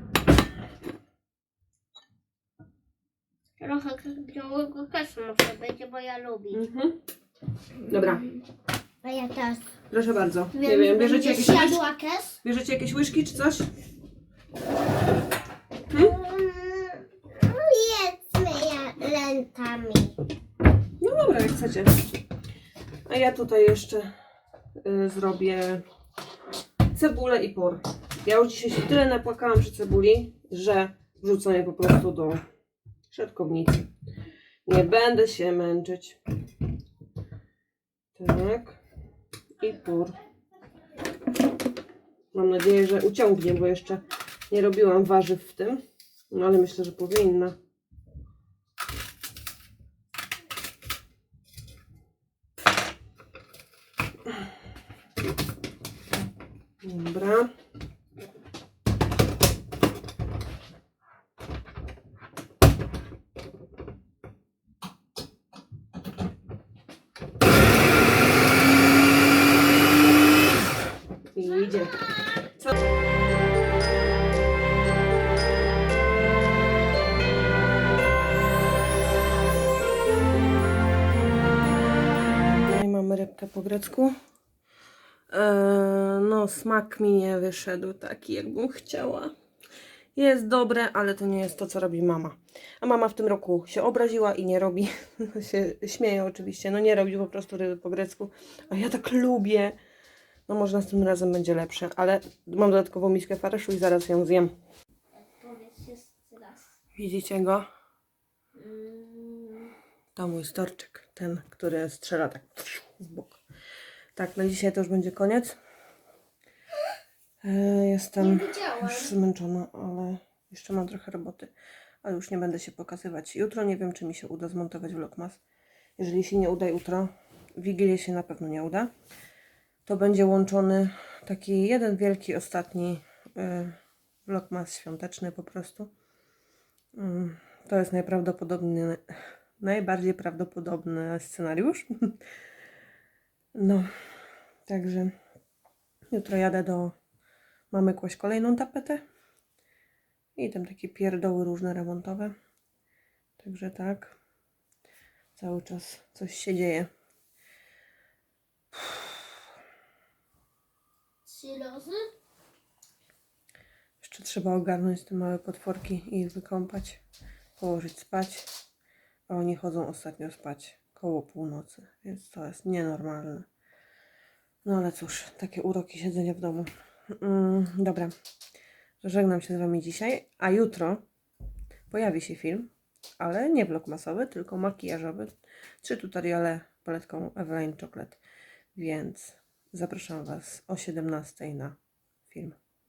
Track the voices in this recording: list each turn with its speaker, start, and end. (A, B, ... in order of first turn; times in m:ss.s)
0:03.6-0:06.6 A
0:06.5-0:06.9 B
0:07.9-0:08.2 B
0:07.9-0:08.4 A
0:09.0-0:09.6 A
0:09.9-0:11.9 B
0:10.5-0:12.4 A
0:12.4-0:13.7 B
0:15.9-0:20.2 A
0:21.0-0:22.0 B
0:23.1-0:24.1 B
0:24.8-0:25.8 B
0:26.9-0:32.4 B
0:33.1-0:33.9 B
0:34.6-0:36.2 B
0:38.2-0:38.8 B
0:39.6-0:40.2 B
0:42.3-0:47.5 B
0:56.8-0:57.5 B
1:11.3-1:12.1 B
1:22.6-1:24.1 B
1:25.3-1:29.3 B
1:30.1-1:39.8 B
1:40.5-1:44.5 B
1:45.2-1:46.6 A
1:47.0-1:47.6 B
1:48.6-1:49.7 A
1:50.1-1:53.4 B
1:54.2-1:55.6 B
1:57.4-2:01.5 B
1:58.2-1:59.1 A
2:02.0-2:05.4 B
2:06.0-2:08.9 B
2:09.8-2:15.9 B
2:16.9-2:22.2 B
2:23.5-2:23.9 B
2:24.7-2:25.1 B
2:26.1-2:26.9 B
2:27.7-2:29.0 B
2:30.4-2:32.3 B
2:33.4-2:34.2 B
2:35.4-2:36.9 B
2:41.3-2:42.1 A
2:44.0-2:47.0 B
2:47.6-2:48.5 B
2:49.3-2:53.5 B
2:54.6-2:58.1 B
2:59.0-3:01.0 B
3:01.9-3:08.2 B
3:08.7-3:11.8 B
3:12.3-3:12.6 B